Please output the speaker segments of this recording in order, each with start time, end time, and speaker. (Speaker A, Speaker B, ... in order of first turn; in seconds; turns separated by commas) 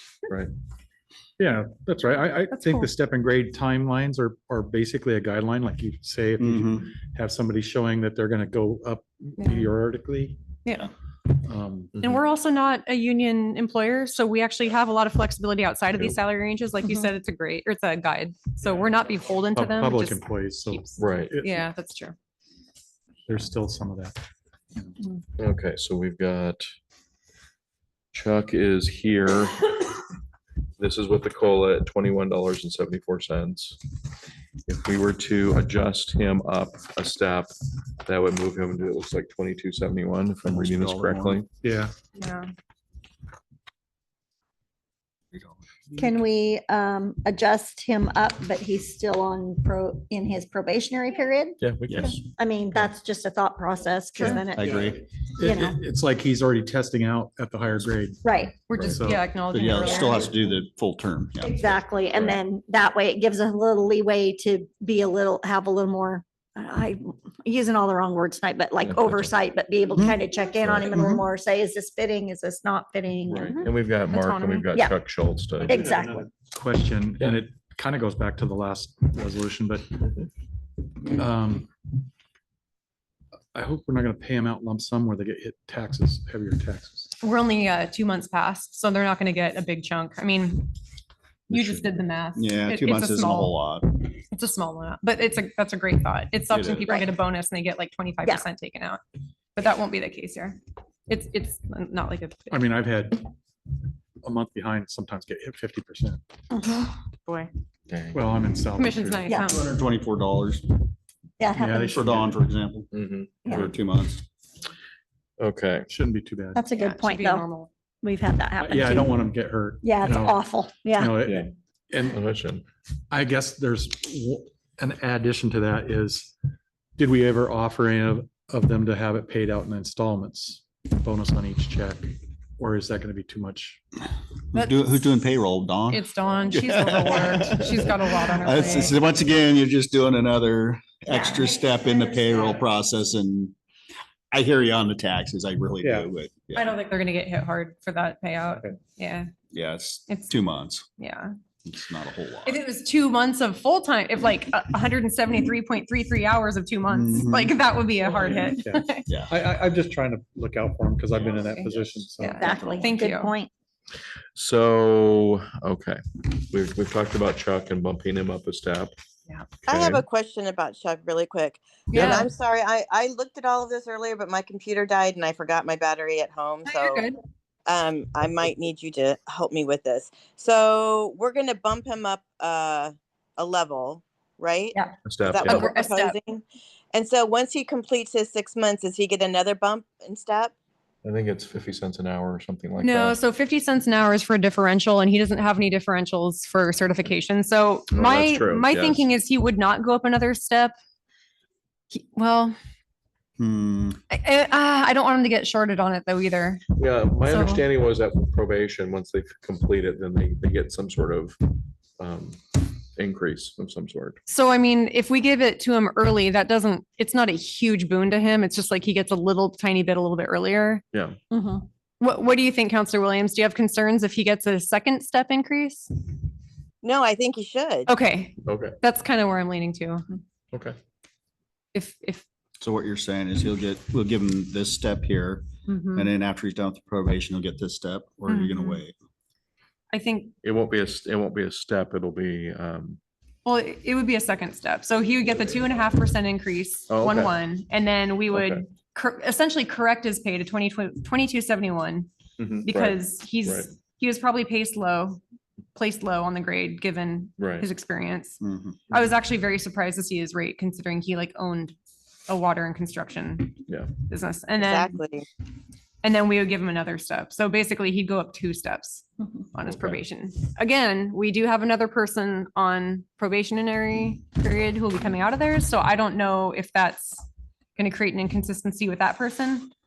Speaker A: 1.4-10.4, Speaker B: 2.5-2.9, Speaker C: 6.4-6.9, Speaker B: 9.4-9.7, Speaker A: 11.3-12.0, Speaker D: 11.9-12.2, Speaker B: 12.0-22.1, Speaker A: 19.5-21.7, Speaker D: 21.0-21.3, Speaker A: 23.2-24.2, Speaker D: 25.4-26.6, Speaker D: 28.1-29.9, Speaker D: 30.8-33.8, Speaker D: 34.7-37.5, Speaker D: 38.0-41.5, Speaker C: 40.5-41.4, Speaker A: 41.6-41.9, Speaker B: 42.1-42.5, Speaker E: 46.0-55.8, Speaker D: 51.6-52.2, Speaker A: 54.2-59.2, Speaker C: 54.5-55.0, Speaker E: 58.2-58.5, Speaker B: 58.7-60.3, Speaker D: 58.8-59.0, Speaker C: 59.5-61.6, Speaker E: 61.4-73.6, Speaker D: 62.1-62.4, Speaker D: 68.8-69.3, Speaker D: 70.6-70.9, Speaker C: 70.9-71.2, Speaker D: 73.3-75.8, Speaker B: 73.6-74.7, Speaker E: 75.6-76.3, Speaker A: 75.6-80.1, Speaker A: 81.1-81.7, Speaker A: 83.5-87.1, Speaker B: 87.2-90.7, Speaker D: 91.5-91.9, Speaker B: 91.5-99.0, Speaker C: 92.4-93.8, Speaker C: 96.5-96.9, Speaker B: 99.5-102.8, Speaker A: 102.5-103.2, Speaker A: 104.2-106.2, Speaker E: 106.5-106.9, Speaker D: 107.9-108.4, Speaker A: 108.1-109.3, Speaker B: 108.8-109.7, Speaker E: 109.3-109.5, Speaker C: 109.5-110.8, Speaker E: 111.4-112.0, Speaker A: 111.5-112.3, Speaker C: 111.9-112.9, Speaker D: 112.9-113.8, Speaker E: 113.4-113.7, Speaker C: 113.5-114.2, Speaker D: 115.4-115.9, Speaker A: 115.9-116.6, Speaker E: 116.5-117.5, Speaker B: 116.7-117.7, Speaker E: 118.0-119.3, Speaker A: 118.6-122.2, Speaker E: 119.8-121.2, Speaker D: 121.2-121.5, Speaker D: 122.1-122.6, Speaker A: 123.1-126.3, Speaker A: 127.0-133.8, Speaker B: 134.5-134.9, Speaker C: 134.5-143.5, Speaker B: 135.9-139.0, Speaker E: 141.1-142.3, Speaker C: 144.3-146.7, Speaker A: 145.8-146.1, Speaker B: 146.5-149.3, Speaker A: 148.5-148.8, Speaker C: 149.5-150.9, Speaker B: 151.0-151.3, Speaker C: 151.6-152.6, Speaker B: 152.4-159.1, Speaker C: 156.9-157.6, Speaker A: 158.1-162.6, Speaker C: 159.1-159.4, Speaker B: 161.3-163.3, Speaker E: 162.2-163.5, Speaker D: 164.3-168.9, Speaker D: 169.7-170.1, Speaker F: 169.8-177.0, Speaker B: 171.9-172.3, Speaker B: 176.6-177.2, Speaker F: 177.7-184.7, Speaker D: 185.0-185.7, Speaker B: 185.4-186.2, Speaker F: 185.8-186.4, Speaker F: 186.9-190.5, Speaker D: 191.0-193.2, Speaker B: 192.8-200.7, Speaker D: 197.9-199.1, Speaker B: 201.9-202.5, Speaker C: 203.4-204.0, Speaker B: 204.1-206.6, Speaker D: 206.8-211.4, Speaker B: 207.2-207.6, Speaker D: 212.0-214.2, Speaker B: 214.3-220.8, Speaker E: 221.3-221.6, Speaker B: 222.0-225.9, Speaker F: 226.8-227.8, Speaker B: 227.8-230.1, Speaker D: 228.4-228.8, Speaker B: 231.7-232.2, Speaker C: 232.6-238.9, Speaker B: 235.7-236.1, Speaker B: 238.3-238.8, Speaker B: 239.9-240.3, Speaker D: 240.4-243.0, Speaker B: 243.4-252.1, Speaker D: 246.9-247.3, Speaker D: 248.3-248.6, Speaker D: 252.4-253.7, Speaker B: 252.6-255.2, Speaker B: 255.7-258.4, Speaker D: 257.4-257.7, Speaker C: 258.4-258.8, Speaker B: 258.9-261.7, Speaker B: 262.3-265.0, Speaker D: 263.7-263.9, Speaker F: 264.6-265.1, Speaker B: 266.0-277.2, Speaker D: 269.6-270.0, Speaker B: 277.8-279.7